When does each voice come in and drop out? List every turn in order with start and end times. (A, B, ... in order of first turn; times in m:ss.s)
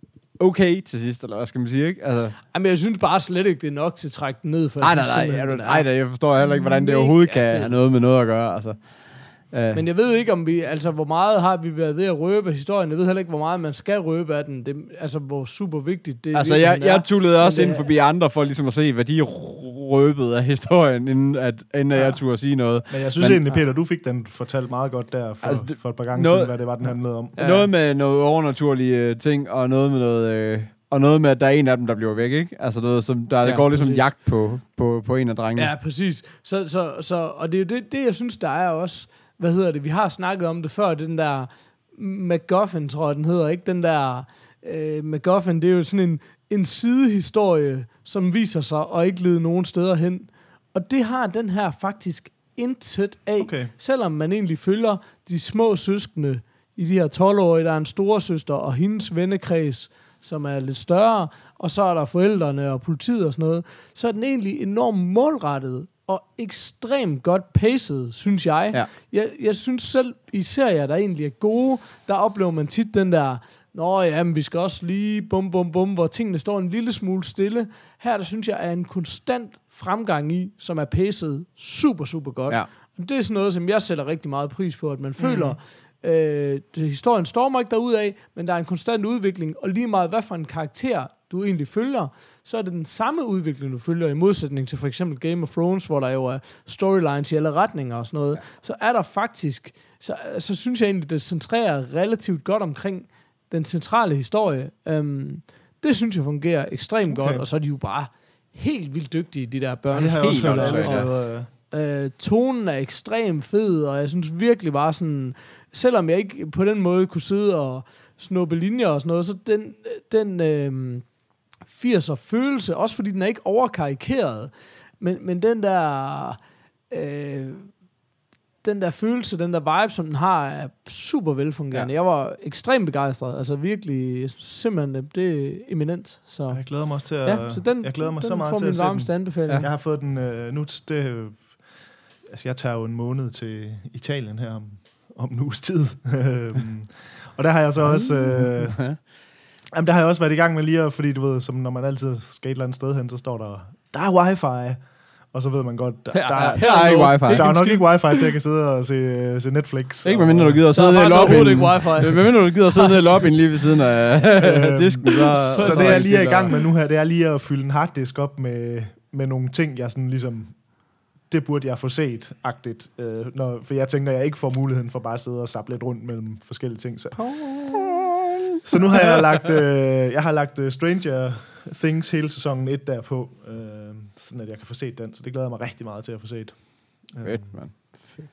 0:00.3-0:02.4 A
0:02.5-0:07.8 B
0:04.8-0:09.8 A
0:09.7-0:17.8 B
0:16.3-0:23.4 A
0:21.9-0:22.2 B
0:22.9-0:27.4 C
0:25.4-0:35.7 A
0:27.4-0:27.7 B
0:33.4-0:34.1 B
0:35.6-2:07.8 B
0:53.4-0:53.7 C
1:25.2-1:25.6 C
1:47.1-1:47.4 C
1:49.9-1:51.5 C
1:50.2-1:51.1 A
2:08.6-2:19.7 B
2:16.5-2:21.6 C
2:22.2-2:29.1 C
2:28.4-2:29.0 A
2:29.7-2:40.6 C
2:36.1-2:38.3 B
2:36.4-2:37.6 A
2:40.0-2:46.5 A
2:40.7-2:43.3 B
2:44.4-2:57.6 C
2:45.4-2:46.4 B
2:57.1-2:57.8 B
2:58.6-3:07.7 C
3:07.2-3:08.2 A